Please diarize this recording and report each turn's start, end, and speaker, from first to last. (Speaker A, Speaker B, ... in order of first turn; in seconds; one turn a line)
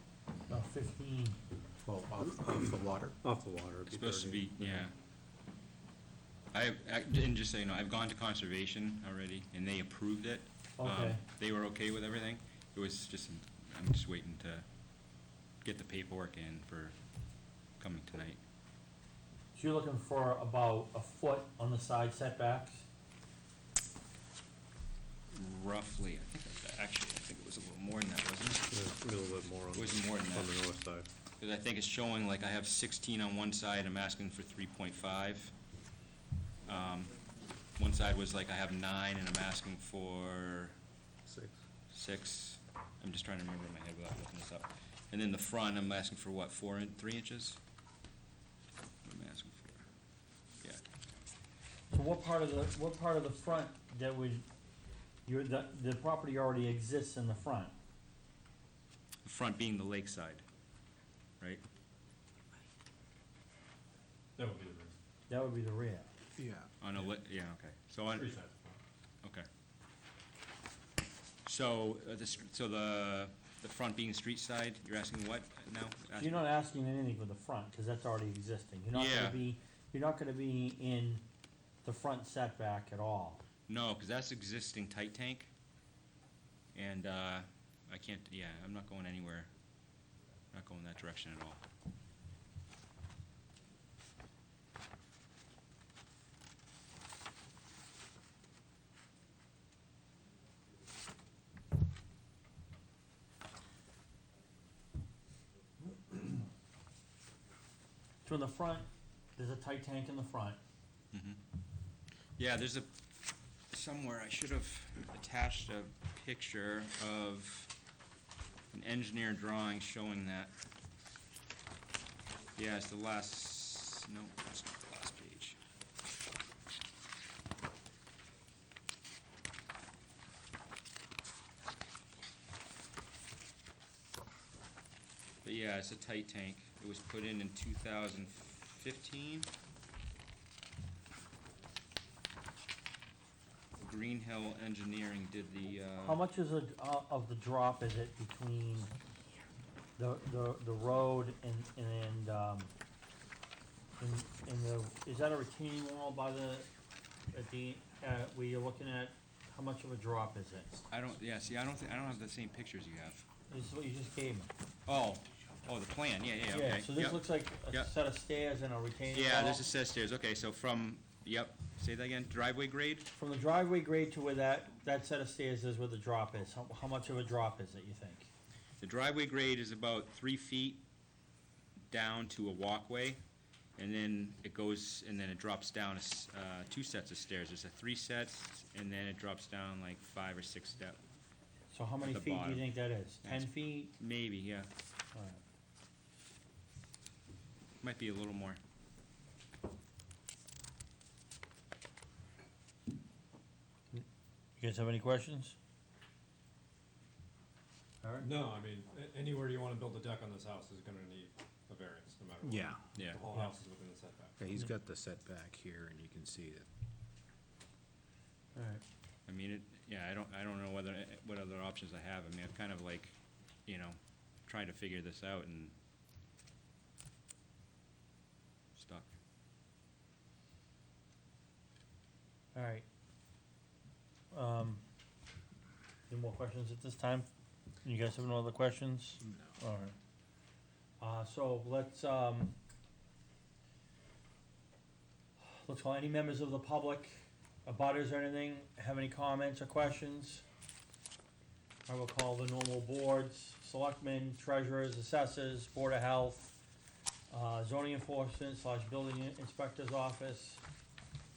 Speaker A: 0.5-1.4
Speaker B: 1.8-3.2
Speaker C: 3.2-4.8
Speaker D: 3.9-4.9
Speaker D: 6.5-14.7
Speaker A: 10.8-11.2
Speaker D: 15.6-16.9
Speaker D: 17.8-18.4
Speaker A: 19.6-22.9
Speaker D: 25.3-28.8
Speaker E: 28.7-31.1
Speaker D: 29.7-30.6
Speaker D: 31.4-35.5
Speaker D: 36.7-37.1
Speaker D: 37.8-40.8
Speaker E: 41.3-41.5
Speaker D: 41.9-47.6
Speaker D: 49.0-49.8
Speaker A: 51.9-54.5
Speaker A: 55.3-57.7
Speaker D: 59.2-60.4
Speaker C: 64.4-65.0
Speaker A: 65.3-66.1
Speaker B: 66.4-66.7
Speaker D: 66.8-68.3
Speaker C: 68.2-68.8
Speaker D: 71.5-76.4
Speaker A: 76.1-81.2
Speaker D: 78.9-79.4
Speaker A: 81.8-83.4
Speaker D: 83.7-85.5
Speaker D: 86.8-89.5
Speaker D: 90.5-91.7
Speaker A: 108.2-110.6
Speaker D: 111.1-111.4
Speaker D: 112.4-112.9
Speaker D: 113.7-117.7
Speaker D: 118.7-120.5
Speaker D: 122.6-125.6
Speaker D: 135.4-139.5
Speaker D: 143.8-146.2
Speaker A: 146.0-148.9
Speaker A: 150.0-152.7
Speaker A: 154.0-156.7
Speaker A: 157.3-160.8
Speaker D: 160.9-163.3
Speaker A: 163.5-164.5
Speaker D: 164.9-167.9
Speaker A: 166.5-169.6
Speaker D: 169.1-173.1
Speaker A: 173.2-178.3
Speaker D: 178.8-180.8
Speaker D: 181.9-183.2
Speaker D: 183.8-191.0
Speaker A: 191.7-193.9
Speaker D: 192.0-192.7
Speaker D: 193.2-194.7
Speaker A: 195.1-195.4
Speaker D: 197.8-198.6
Speaker A: 204.6-205.6
Speaker A: 208.0-208.3
Speaker C: 208.2-214.3
Speaker B: 212.4-212.8
Speaker D: 212.9-213.2
Speaker B: 214.4-216.7
Speaker A: 218.6-218.8
Speaker D: 219.3-223.2
Speaker D: 223.7-225.8
Speaker D: 228.8-229.1
Speaker A: 232.5-232.8
Speaker A: 234.3-234.8
Speaker A: 236.1-237.3
Speaker A: 237.8-239.9
Speaker A: 241.0-242.6
Speaker A: 245.4-250.4
Speaker A: 251.9-256.6
Speaker A: 257.3-260.6